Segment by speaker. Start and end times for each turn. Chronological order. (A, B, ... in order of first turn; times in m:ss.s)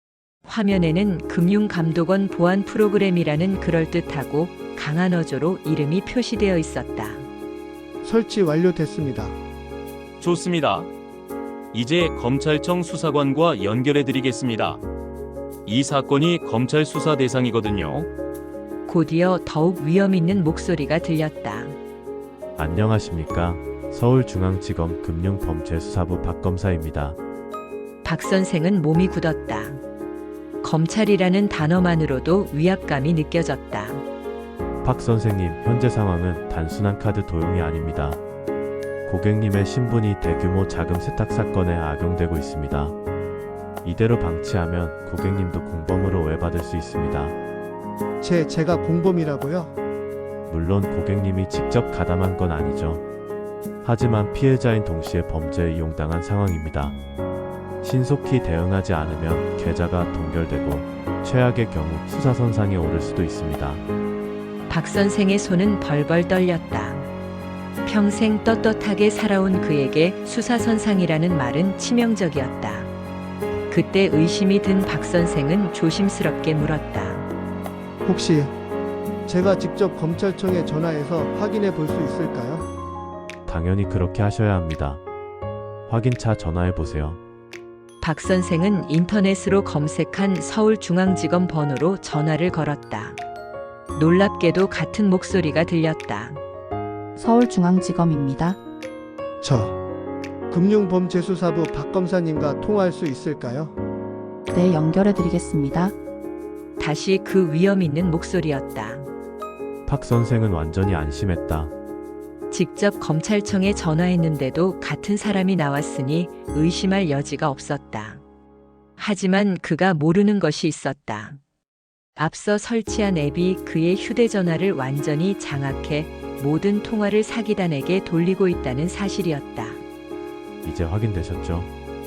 0:00.4-0:07.3 A
0:08.0-0:09.4 B
0:10.2-0:10.9 C
0:11.7-0:14.8 C
0:15.6-0:18.1 C
0:18.9-0:21.8 A
0:22.6-0:27.2 D
0:28.0-0:29.8 A
0:30.6-0:34.0 A
0:34.8-0:38.2 D
0:39.0-0:43.0 D
0:43.8-0:47.4 D
0:48.2-0:49.7 B
0:50.5-0:53.0 D
0:53.8-0:57.0 D
0:57.8-1:03.8 D
1:04.7-1:07.1 A
1:07.8-1:12.9 A
1:13.7-1:17.2 A
1:18.0-1:18.5 B
1:19.3-1:22.7 B
1:23.5-1:25.0 D
1:25.9-1:27.2 D
1:28.0-1:33.2 A
1:33.9-1:36.4 A
1:37.2-1:38.6 E
1:39.4-1:39.8 B
1:40.5-1:43.7 B
1:44.5-1:45.9 E
1:46.8-1:49.1 A
1:49.8-1:51.7 D
1:52.5-1:58.2 A
1:59.0-2:01.4 A
2:02.2-2:09.8 A
2:10.6-2:11.7 D